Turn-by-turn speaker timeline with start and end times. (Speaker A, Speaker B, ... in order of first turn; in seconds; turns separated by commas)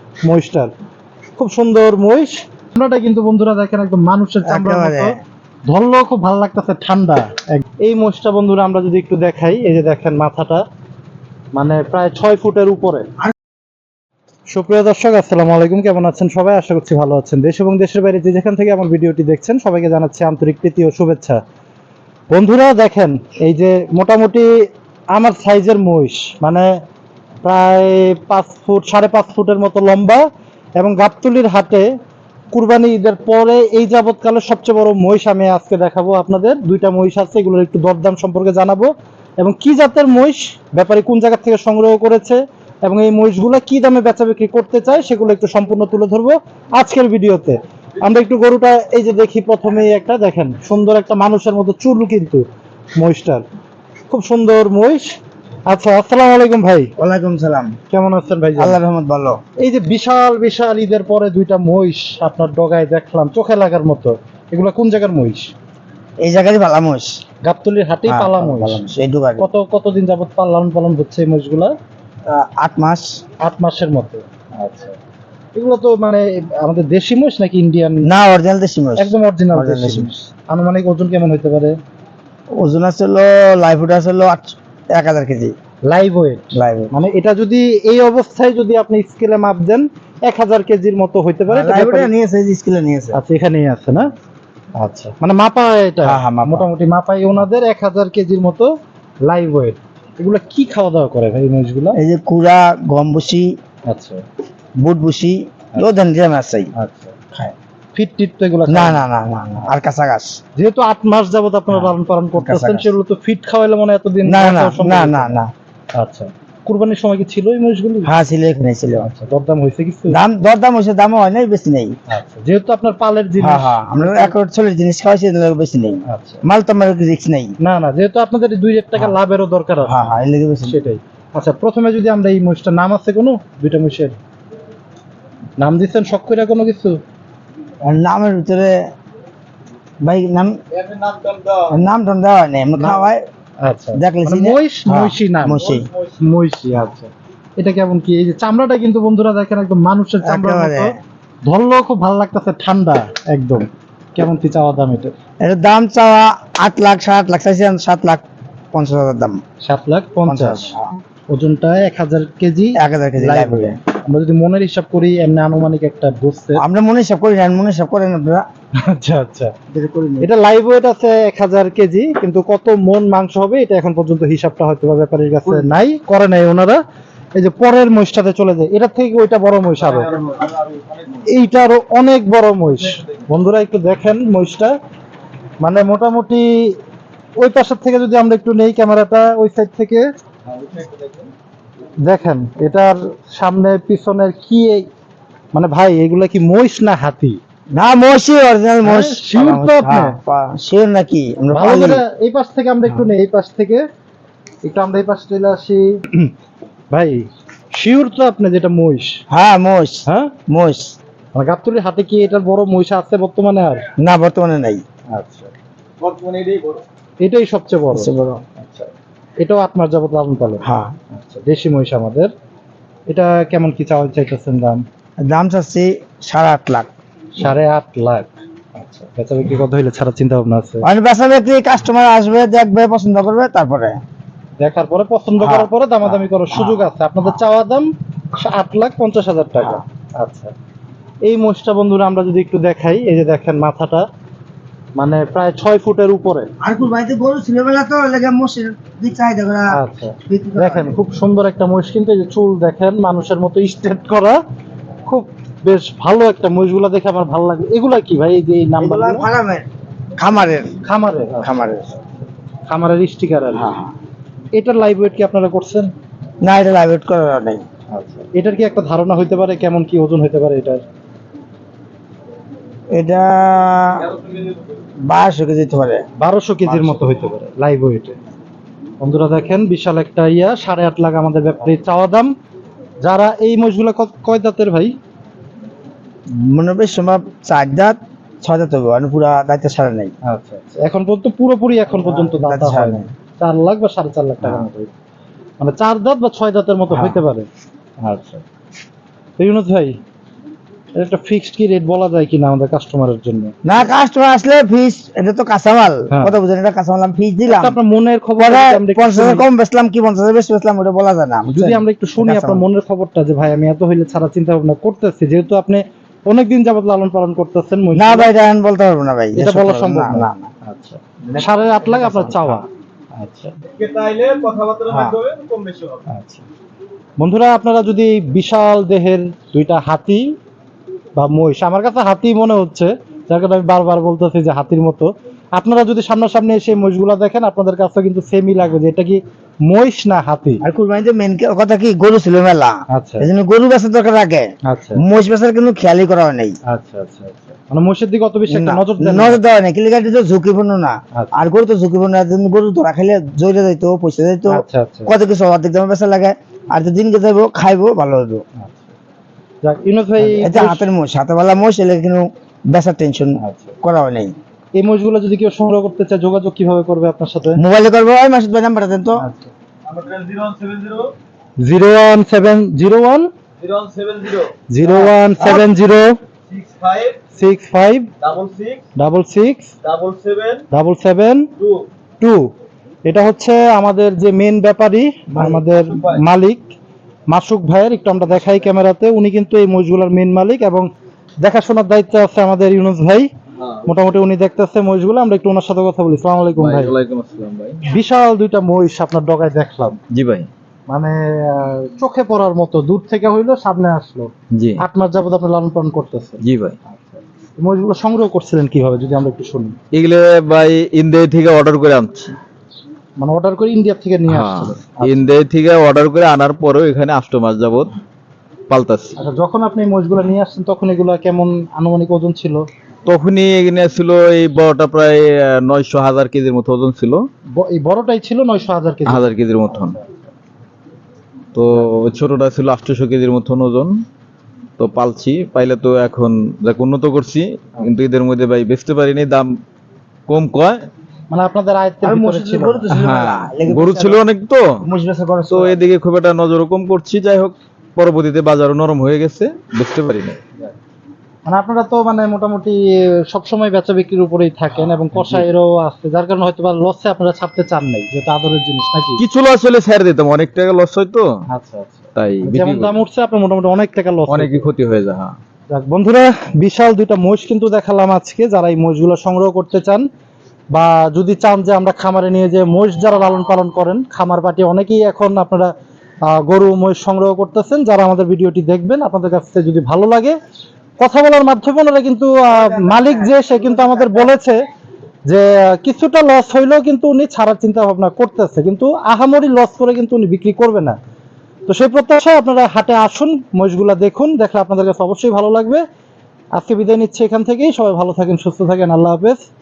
Speaker A: 0.2-0.7, Speaker A: 1.4-5.1, Speaker B: 4.5-5.2, Speaker A: 5.7-10.6, Speaker A: 11.5-13.1, Speaker A: 14.5-21.4, Speaker A: 22.3-24.5, Speaker A: 25.1-26.7, Speaker A: 27.4-30.2, Speaker A: 30.8-31.9, Speaker A: 32.5-38.9, Speaker A: 39.4-52.4, Speaker A: 53.0-53.4, Speaker A: 54.1-55.1, Speaker A: 55.7-56.9, Speaker B: 57.0-57.8, Speaker A: 57.9-58.8, Speaker B: 58.6-59.4, Speaker A: 59.6-65.5, Speaker B: 66.2-67.2, Speaker A: 67.4-68.8, Speaker B: 68.1-69.5, Speaker A: 69.4-71.7, Speaker B: 72.3-73.2, Speaker A: 73.4-75.0, Speaker A: 75.5-78.1, Speaker B: 78.0-80.1, Speaker A: 79.0-81.8, Speaker B: 82.5-85.5, Speaker A: 85.9-92.1, Speaker B: 86.5-86.9, Speaker B: 91.5-93.2, Speaker A: 93.1-94.1, Speaker A: 94.8-98.7, Speaker B: 96.0-96.7, Speaker A: 99.2-102.0, Speaker B: 102.0-103.5, Speaker A: 103.9-104.2, Speaker B: 104.8-106.7, Speaker A: 106.7-107.1, Speaker A: 107.9-109.0, Speaker B: 108.7-110.4, Speaker A: 110.6-115.4, Speaker B: 111.7-112.9, Speaker B: 114.2-115.5, Speaker A: 115.9-118.1, Speaker B: 118.0-119.1, Speaker A: 119.0-120.2, Speaker B: 120.1-122.0, Speaker A: 122.1-124.3, Speaker B: 123.4-127.5, Speaker A: 126.1-126.4, Speaker A: 127.6-129.9, Speaker B: 129.8-130.8, Speaker A: 130.7-134.2, Speaker A: 135.6-137.0, Speaker B: 137.8-138.9, Speaker B: 140.0-140.6, Speaker C: 140.7-141.8, Speaker B: 141.7-143.2, Speaker A: 143.6-150.9, Speaker B: 143.9-145.9, Speaker C: 145.7-146.1, Speaker B: 150.2-151.0, Speaker A: 151.4-155.1, Speaker B: 155.4-159.4, Speaker A: 159.6-160.7, Speaker B: 160.3-161.0, Speaker A: 161.3-166.6, Speaker B: 162.8-163.8, Speaker B: 166.6-168.4, Speaker A: 168.8-169.6, Speaker B: 169.7-170.3, Speaker A: 170.2-176.8, Speaker B: 175.4-175.8, Speaker A: 177.3-180.1, Speaker C: 179.8-181.3, Speaker A: 181.2-184.8, Speaker A: 185.6-186.8, Speaker A: 187.4-190.0, Speaker C: 190.5-191.3, Speaker A: 192.0-194.9, Speaker A: 195.5-197.4, Speaker B: 197.7-202.0, Speaker A: 198.8-200.2, Speaker A: 201.5-203.8, Speaker A: 204.6-206.3, Speaker A: 206.9-209.2, Speaker B: 209.3-210.9, Speaker A: 210.1-210.3, Speaker A: 211.3-213.9, Speaker B: 214.0-214.8, Speaker A: 215.1-215.5, Speaker C: 216.0-216.8, Speaker A: 217.2-222.3, Speaker B: 217.9-218.4, Speaker B: 220.6-220.9, Speaker A: 223.1-224.8, Speaker B: 225.2-226.9, Speaker A: 227.4-230.8, Speaker B: 230.8-234.0, Speaker A: 234.6-240.5, Speaker B: 235.4-236.9, Speaker A: 241.2-244.1, Speaker A: 245.0-246.5, Speaker B: 246.6-250.9, Speaker A: 249.7-254.4, Speaker A: 255.1-259.3, Speaker B: 258.8-260.8, Speaker A: 260.8-261.5, Speaker B: 261.4-262.0, Speaker A: 262.7-263.7, Speaker B: 263.6-263.9, Speaker A: 264.5-265.9, Speaker B: 266.4-267.6, Speaker A: 267.9-270.8, Speaker B: 272.9-274.1, Speaker C: 274.1-274.6, Speaker B: 275.0-276.0, Speaker A: 276.2-278.2, Speaker B: 276.6-277.0, Speaker A: 279.0-282.3, Speaker A: 283.0-284.9, Speaker B: 286.3-290.1, Speaker A: 290.2-294.9, Speaker B: 292.0-293.1, Speaker A: 295.6-297.5, Speaker B: 296.9-297.2, Speaker A: 298.0-298.4, Speaker A: 299.4-299.9, Speaker A: 301.0-303.5, Speaker B: 303.6-307.8, Speaker A: 307.5-309.4, Speaker B: 308.4-312.6, Speaker A: 311.5-318.3, Speaker B: 317.9-320.5, Speaker A: 319.4-323.6, Speaker B: 321.2-322.6, Speaker C: 323.7-326.1, Speaker B: 324.9-325.2, Speaker A: 326.1-326.4, Speaker A: 327.2-330.3, Speaker A: 331.1-340.6, Speaker B: 340.6-346.6, Speaker A: 342.9-343.3, Speaker A: 344.7-345.0, Speaker A: 346.7-349.4, Speaker B: 348.5-358.4, Speaker A: 354.5-355.1, Speaker A: 358.6-358.9, Speaker A: 359.6-360.9, Speaker B: 360.2-364.3, Speaker A: 363.4-363.8, Speaker A: 364.8-367.6, Speaker B: 367.6-369.2, Speaker A: 369.2-369.5, Speaker C: 369.9-371.1, Speaker A: 371.6-373.3, Speaker C: 373.6-375.7, Speaker A: 374.7-376.1, Speaker C: 376.5-377.2, Speaker A: 377.3-378.1, Speaker C: 378.2-378.8, Speaker A: 378.9-379.7, Speaker C: 379.8-380.6, Speaker A: 380.7-381.5, Speaker C: 381.6-381.9, Speaker A: 382.2-382.5, Speaker A: 383.1-386.7, Speaker B: 385.3-385.6, Speaker C: 385.8-386.2, Speaker A: 387.3-390.9, Speaker A: 391.4-393.3, Speaker C: 393.6-393.9, Speaker A: 393.9-396.9, Speaker C: 396.6-397.9, Speaker A: 397.9-400.0, Speaker C: 400.1-400.5, Speaker A: 400.9-409.8, Speaker C: 404.6-404.8, Speaker C: 406.4-406.8, Speaker C: 409.9-412.4, Speaker A: 413.2-415.2, Speaker C: 414.3-417.9, Speaker C: 418.7-419.1, Speaker A: 419.2-422.6, Speaker C: 423.1-427.3, Speaker A: 427.5-430.2, Speaker C: 429.1-429.9, Speaker C: 431.5-434.0, Speaker C: 434.8-439.6, Speaker C: 440.3-440.9, Speaker A: 441.3-442.9, Speaker B: 442.0-444.2, Speaker C: 442.9-444.8, Speaker B: 444.8-445.8, Speaker C: 445.5-450.4, Speaker A: 451.4-459.2, Speaker C: 454.7-455.4, Speaker C: 459.2-461.3, Speaker A: 461.5-464.7, Speaker C: 462.1-462.9, Speaker C: 464.3-465.4, Speaker A: 465.7-470.1, Speaker A: 470.7-475.7, Speaker A: 476.2-480.4, Speaker A: 481.0-484.6, Speaker B: 482.5-484.3, Speaker A: 485.3-491.0, Speaker A: 491.7-495.8, Speaker A: 496.6-499.4